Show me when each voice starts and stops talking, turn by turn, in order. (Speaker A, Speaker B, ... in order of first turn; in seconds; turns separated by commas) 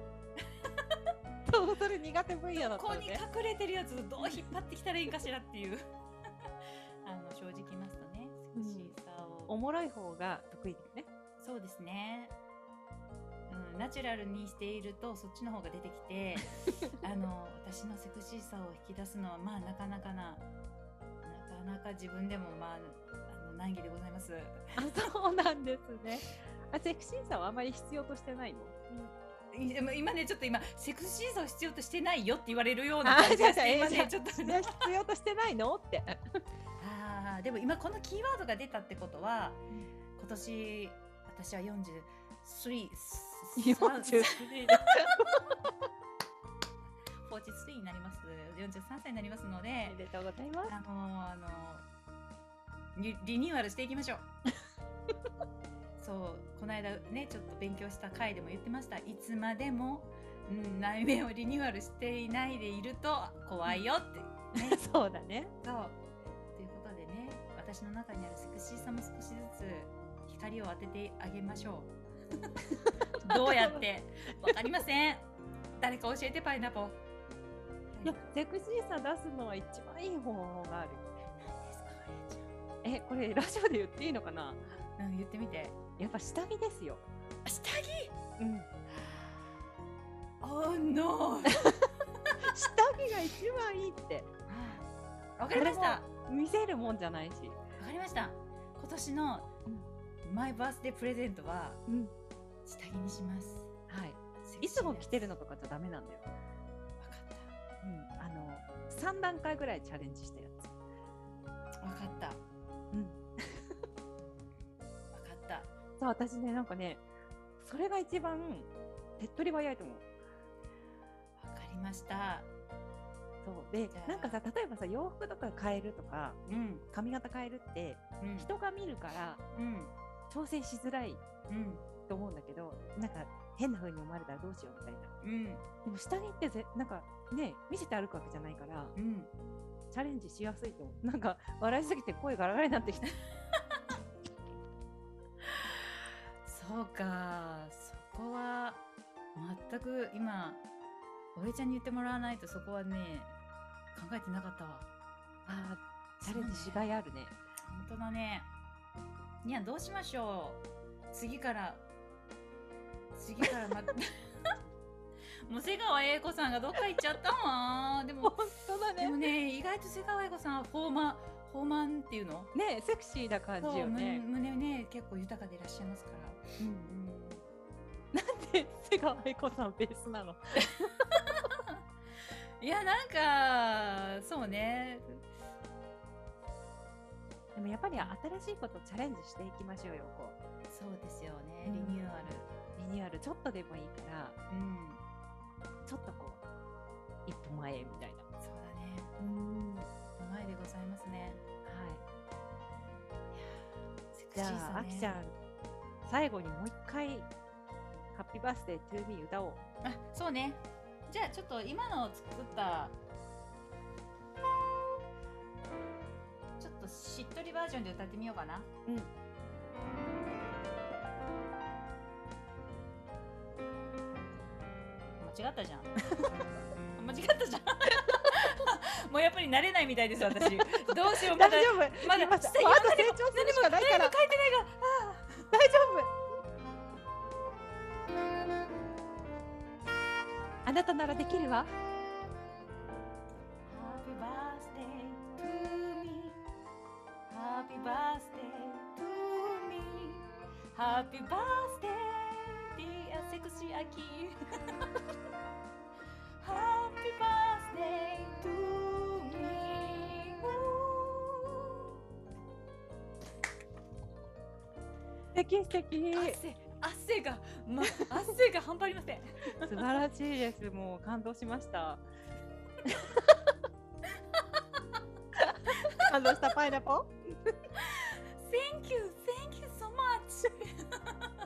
Speaker A: 1.5-3.2, Speaker B: 2.6-5.8, Speaker B: 7.0-9.5, Speaker A: 8.5-8.9, Speaker A: 9.5-11.1, Speaker B: 11.4-12.3, Speaker B: 13.5-20.4, Speaker B: 21.2-24.6, Speaker A: 24.8-29.0, Speaker B: 29.5-34.9, Speaker A: 33.0-36.2, Speaker B: 36.8-39.6, Speaker B: 40.1-45.0, Speaker A: 43.6-45.5, Speaker B: 47.2-50.0, Speaker A: 49.9-50.7, Speaker B: 50.7-51.9, Speaker B: 52.9-54.3, Speaker B: 56.0-64.8, Speaker A: 64.6-65.5, Speaker B: 65.6-66.0, Speaker B: 66.5-71.9, Speaker A: 72.7-73.8, Speaker B: 73.2-75.3, Speaker B: 75.8-77.0, Speaker B: 77.9-78.2, Speaker A: 78.0-81.0, Speaker B: 81.3-82.5, Speaker A: 82.8-84.6, Speaker B: 85.0-85.8, Speaker A: 86.0-87.0, Speaker B: 87.4-88.1, Speaker A: 88.4-88.7, Speaker B: 90.4-91.7, Speaker A: 91.5-91.9, Speaker A: 92.4-94.3, Speaker B: 94.5-94.9, Speaker B: 95.4-96.1, Speaker A: 95.5-97.6, Speaker B: 97.8-99.5, Speaker B: 100.2-101.8, Speaker A: 101.9-102.1, Speaker B: 102.7-103.7, Speaker A: 103.9-106.3, Speaker B: 104.4-105.3, Speaker B: 107.0-107.5, Speaker A: 107.8-110.7, Speaker B: 111.8-112.4, Speaker A: 112.9-113.7, Speaker B: 115.1-115.7, Speaker A: 116.0-117.0, Speaker A: 117.6-120.0, Speaker B: 121.4-122.5, Speaker A: 123.4-126.4, Speaker B: 123.9-124.4, Speaker B: 126.5-126.8, Speaker A: 126.9-129.4, Speaker B: 128.2-128.5, Speaker B: 129.5-129.9, Speaker A: 130.3-131.2, Speaker B: 131.5-131.9, Speaker A: 132.1-135.1, Speaker B: 135.2-135.6, Speaker A: 135.8-138.9, Speaker B: 138.9-139.3, Speaker A: 139.9-143.1, Speaker B: 145.7-150.6, Speaker B: 151.3-153.3, Speaker B: 153.9-154.9, Speaker A: 155.4-157.3, Speaker B: 156.2-156.9, Speaker B: 157.7-158.5, Speaker B: 159.4-161.8, Speaker B: 163.1-164.2, Speaker B: 165.5-172.5, Speaker A: 168.2-169.2, Speaker A: 172.5-174.2, Speaker B: 173.6-177.4, Speaker A: 176.6-176.9, Speaker A: 178.1-180.9, Speaker B: 182.6-185.2, Speaker A: 187.6-190.4, Speaker B: 190.7-192.5, Speaker A: 191.6-194.4, Speaker B: 194.5-195.0, Speaker A: 195.8-196.4, Speaker A: 197.2-198.2, Speaker B: 198.4-199.1, Speaker A: 199.2-199.9, Speaker B: 200.2-201.4, Speaker A: 201.6-202.0, Speaker B: 203.3-205.2, Speaker A: 204.3-205.3, Speaker A: 206.0-207.3, Speaker A: 208.1-209.6, Speaker B: 209.8-212.9, Speaker B: 216.6-218.7, Speaker A: 218.8-219.1, Speaker B: 225.2-226.3, Speaker B: 226.9-235.5, Speaker A: 231.1-234.1, Speaker A: 235.5-236.1, Speaker A: 240.6-241.7, Speaker B: 243.7-246.4, Speaker B: 247.3-254.3, Speaker B: 256.4-261.9, Speaker A: 265.3-266.4, Speaker B: 266.1-270.0, Speaker A: 269.6-272.0, Speaker B: 274.3-274.6, Speaker B: 275.7-276.0, Speaker A: 275.9-277.1, Speaker B: 277.8-281.3